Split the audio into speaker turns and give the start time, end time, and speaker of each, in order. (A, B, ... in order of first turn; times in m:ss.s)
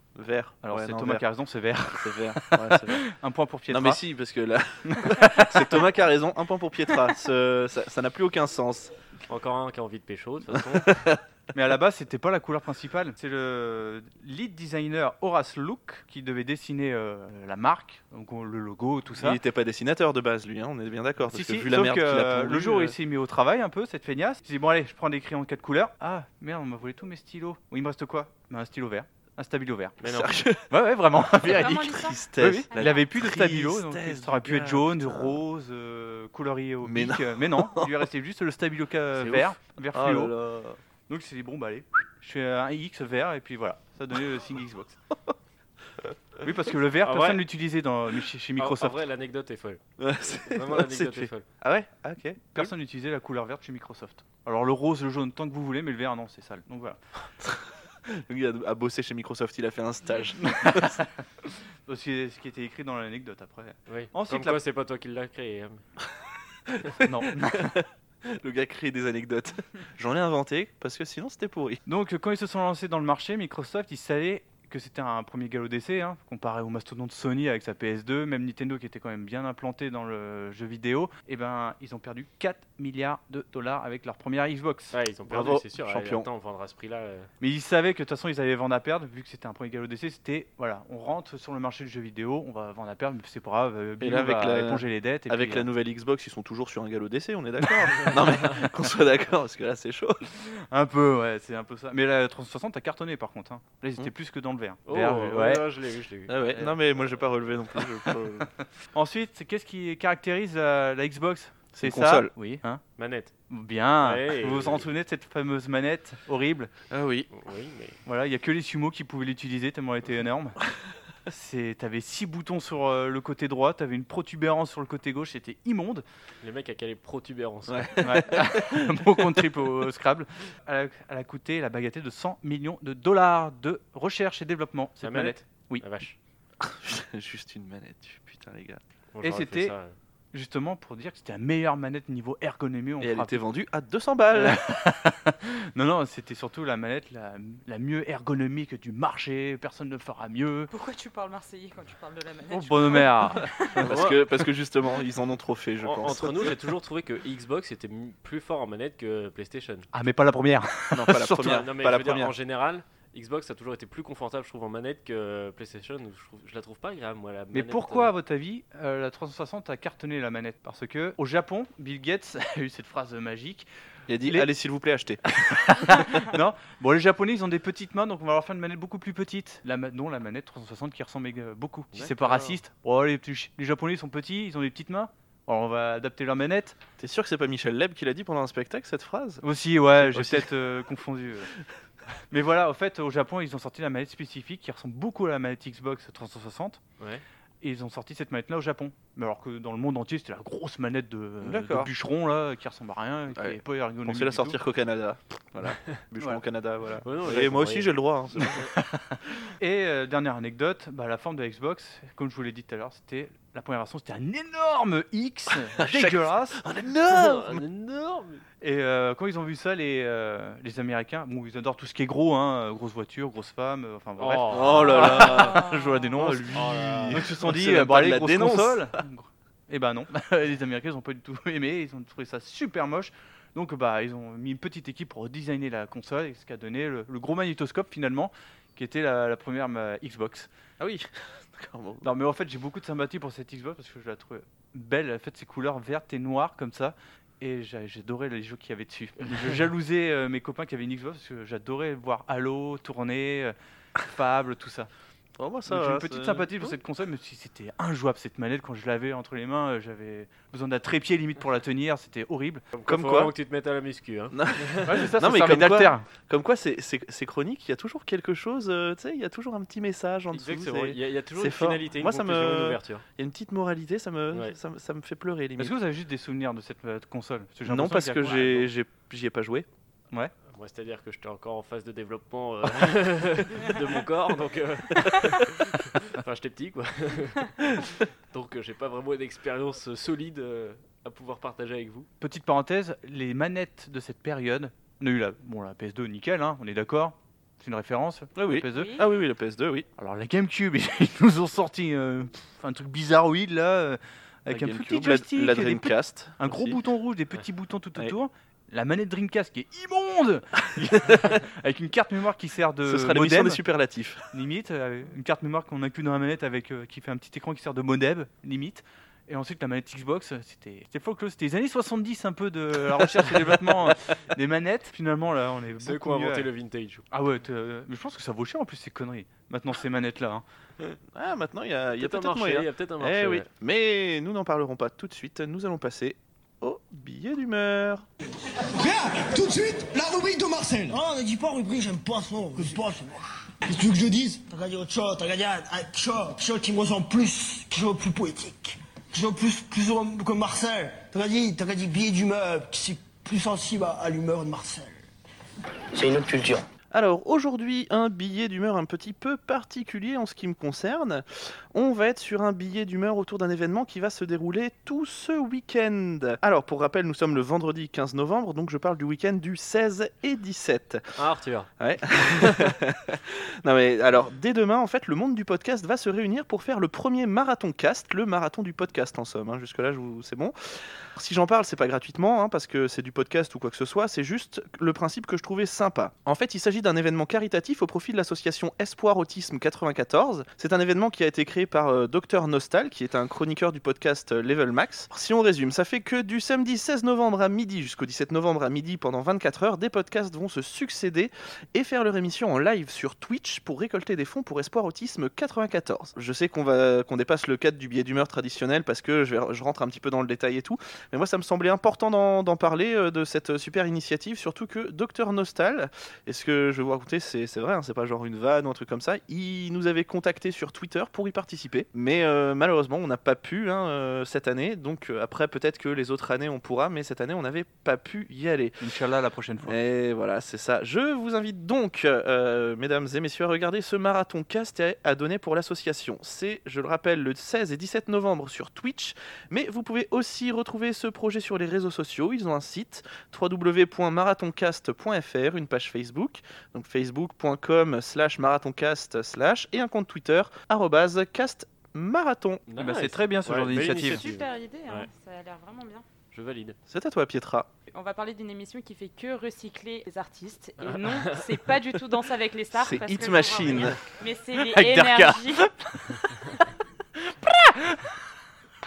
0:00.2-0:01.2 A
0:00.6-0:04.0 B
0:01.9-0:03.0 A
0:03.7-0:08.9 A
0:04.9-0:05.8 B
0:09.3-0:11.0 C
0:10.5-0:11.2 A
0:11.5-0:19.4 B
0:19.2-0:22.9 A
0:21.2-0:30.0 B
0:30.0-0:30.4 C
0:30.0-0:30.6 A
0:30.7-0:40.4 B
0:31.4-0:32.2 D
0:31.4-0:35.4 A
0:32.7-0:33.0 D
0:36.8-0:38.0 A
0:39.9-0:40.8 A
0:41.1-0:45.0 B
0:46.4-0:49.0 B
0:47.0-0:47.4 C
0:48.6-0:49.8 C
0:50.0-0:52.7 A
0:50.4-0:51.4 C
0:52.5-0:57.0 B
0:57.4-1:01.0 A
1:00.4-1:01.1 B
1:01.8-1:04.6 B
1:03.9-1:05.8 C
1:06.8-1:11.8 A
1:07.0-1:07.8 B
1:11.8-1:24.9 B
1:24.9-1:27.3 C
1:25.3-1:26.3 A
1:27.4-1:35.7 B
1:34.0-1:40.2 A
1:40.4-1:45.7 B
1:44.9-1:46.5 C
1:46.3-1:48.5 A
1:48.9-1:52.8 B
1:51.8-1:52.3 A
1:53.0-1:53.3 C
1:53.5-1:56.7 B
1:54.0-1:54.9 C
1:56.9-1:57.3 A
1:57.3-1:58.0 C
1:58.0-2:00.6 B
2:01.3-2:06.0 B
2:06.4-2:08.1 C
2:07.7-2:08.9 A
2:08.0-2:15.8 B
2:15.0-2:16.2 C
2:16.6-2:18.8 A
2:19.1-2:19.9 C
2:19.2-2:19.7 B
2:20.3-2:23.4 B
2:23.0-2:24.6 A
2:24.3-2:30.7 B
2:30.7-2:33.8 D
2:32.5-2:34.0 B
2:33.8-2:36.6 A
2:33.9-2:34.2 C
2:35.8-2:39.9 C
2:39.9-2:41.6 B
2:40.9-2:42.3 A
2:41.3-2:48.1 C
2:47.5-2:53.7 B
2:54.1-2:55.2 A
2:55.2-3:06.8 B
3:01.9-3:02.6 C
3:07.0-3:09.4 A
3:09.4-3:11.5 B
3:10.0-3:10.5 A
3:12.3-3:16.8 B
3:17.0-3:17.2 C
3:17.6-3:24.6 B
3:21.4-3:21.9 A
3:23.3-3:28.7 A
3:27.0-3:27.9 C
3:28.7-3:36.6 B
3:35.8-3:37.6 A
3:37.0-3:38.4 C
3:38.6-4:00.5 B
3:44.2-3:45.4 C
3:44.5-3:48.9 A
3:46.5-3:47.3 C
4:00.8-4:02.1 A
4:02.0-4:14.9 B
4:15.4-4:16.8 A
4:15.7-4:22.6 B
4:22.7-4:25.0 C
4:22.9-4:23.3 A
4:24.3-4:35.7 A
4:24.8-4:26.1 B
4:30.3-4:33.0 C
4:35.6-4:38.7 B
4:37.6-4:39.6 A
4:40.5-4:47.5 C
4:48.3-4:52.1 C
4:52.2-4:59.0 B
4:58.4-4:59.8 A
4:58.7-4:59.0 D
5:00.0-5:13.6 B
5:04.5-5:06.8 A
5:12.8-5:14.2 A
5:14.3-5:26.5 B
5:25.8-5:27.0 C
5:27.1-5:30.4 B
5:31.1-5:38.0 A
5:32.0-5:33.5 C
5:38.8-5:39.2 E
5:38.9-5:40.9 F
5:40.8-5:54.9 E
5:56.9-6:11.1 A
6:11.2-6:12.7 C
6:11.8-7:08.8 A
7:08.8-7:09.7 B
7:09.6-7:32.6 A
7:32.7-7:35.1 C
7:32.8-7:34.2 B
7:34.0-7:36.0 D
7:36.3-7:36.8 C
7:36.9-7:37.7 A
7:37.9-7:45.6 D
7:40.8-7:41.5 C
7:42.7-7:44.0 A
7:44.6-7:46.3 B
7:47.2-7:48.1 B